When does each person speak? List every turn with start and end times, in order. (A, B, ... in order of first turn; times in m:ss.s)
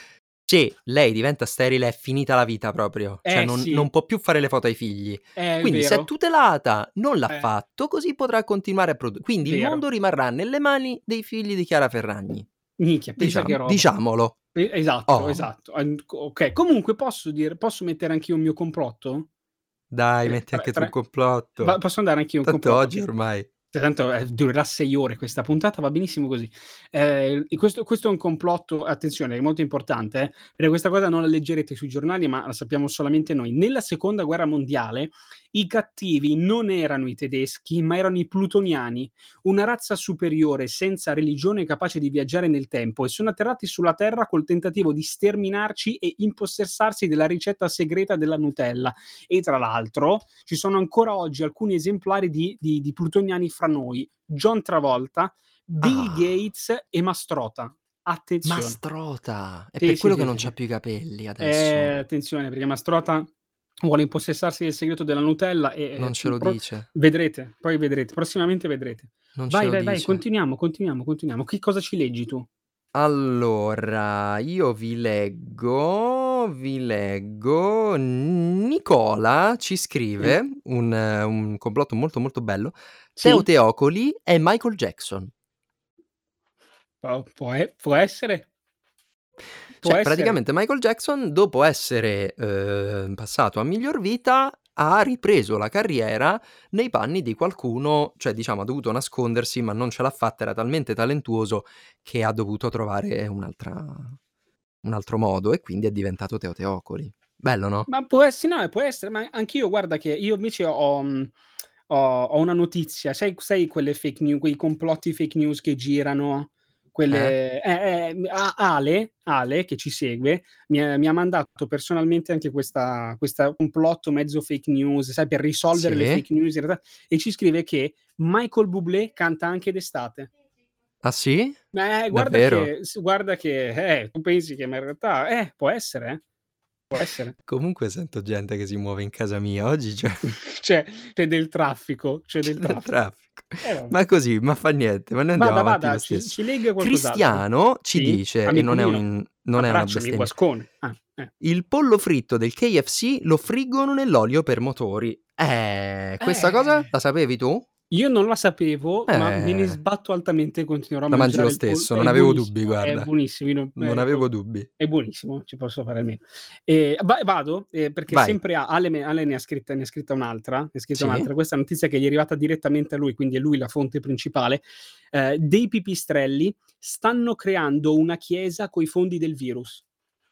0:00.5-0:12.5 A
0:03.2-0:03.9 B
0:05.4-0:06.1 B
0:09.4-0:09.8 B
0:12.8-0:13.9 B
0:13.2-0:14.4 A
0:14.5-0:19.3 B
0:15.1-0:15.4 A
0:19.9-0:21.8 A
0:20.2-0:20.9 B
0:21.6-0:23.0 B
0:22.4-0:23.5 A
0:23.7-0:58.8 B
0:55.8-0:56.3 A
0:58.4-1:02.0 A
0:59.8-1:00.5 B
1:01.4-1:03.3 B
1:03.8-1:12.5 B
1:06.0-1:06.9 A
1:09.3-1:10.2 A
1:12.9-1:25.3 A
1:23.2-1:23.5 B
1:27.0-1:28.5 B
1:29.8-1:30.4 B
1:29.8-1:44.2 A
1:44.8-1:47.9 A
1:47.9-1:51.3 B
1:51.9-2:10.3 B
1:57.1-1:57.3 A
2:05.7-2:06.2 A
2:11.0-2:12.7 A
2:11.7-2:16.2 B
2:16.9-2:17.3 B
2:17.0-2:20.2 A
2:20.2-2:22.9 B
2:22.4-2:30.3 A
2:23.6-2:24.0 B
2:25.3-2:31.3 B
2:31.4-2:37.7 A
2:36.2-2:36.9 B
2:37.9-2:59.8 B
2:39.1-2:39.8 A
2:41.1-2:43.1 A
2:43.8-2:44.7 A
2:48.1-2:48.4 A
2:50.9-2:51.3 A